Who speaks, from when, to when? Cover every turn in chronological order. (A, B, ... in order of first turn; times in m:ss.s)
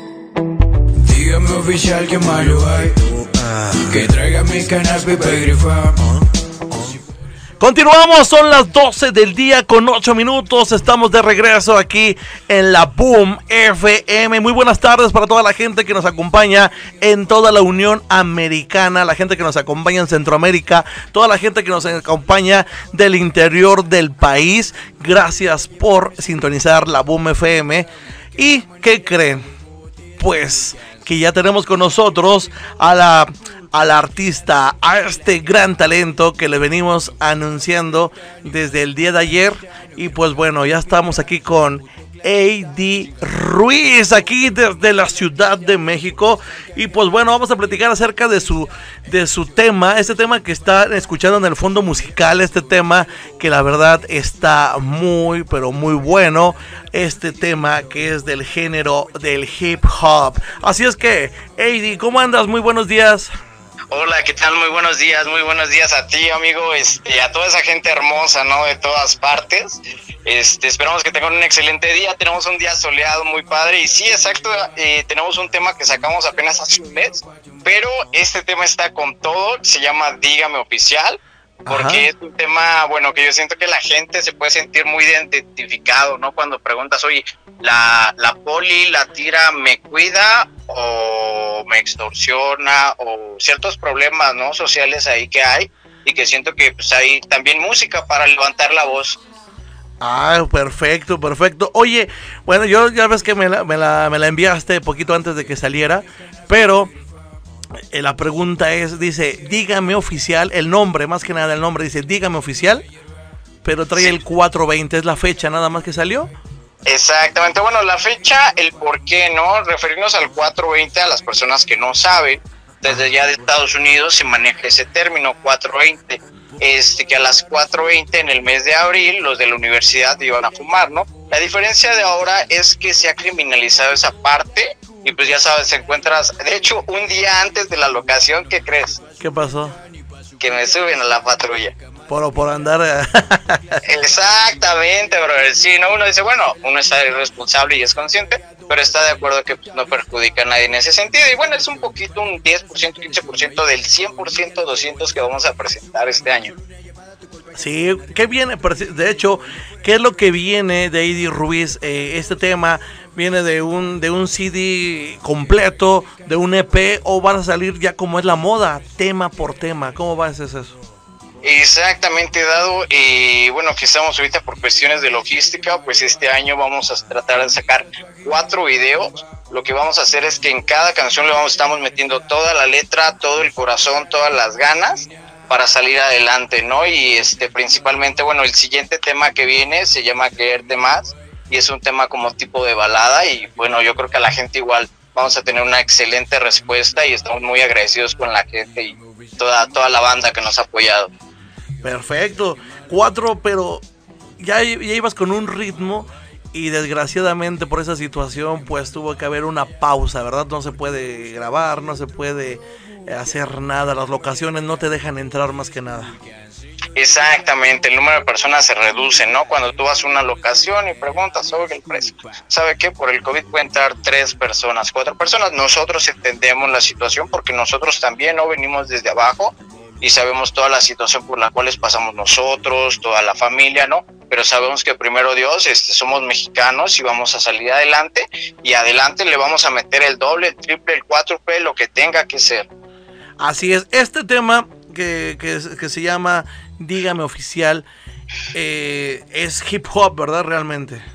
0:01.0-0:03.0 A
0:03.8-0:06.0 A
0:07.6-0:29.4 B
0:30.2-1:03.3 B
1:03.9-1:39.2 C
1:21.6-1:22.1 B
1:40.0-1:46.9 B
1:47.9-1:52.8 B
1:53.6-1:56.3 B
1:56.8-2:19.0 C
2:19.2-2:19.8 B
2:20.4-2:21.7 C
2:22.1-2:23.8 B
2:23.8-2:36.5 C
2:37.6-2:50.8 B
2:51.4-3:21.1 C
3:21.8-3:23.8 B
3:24.4-3:36.1 B
3:37.0-4:02.7 C
4:03.4-4:07.9 B
4:08.5-4:11.0 B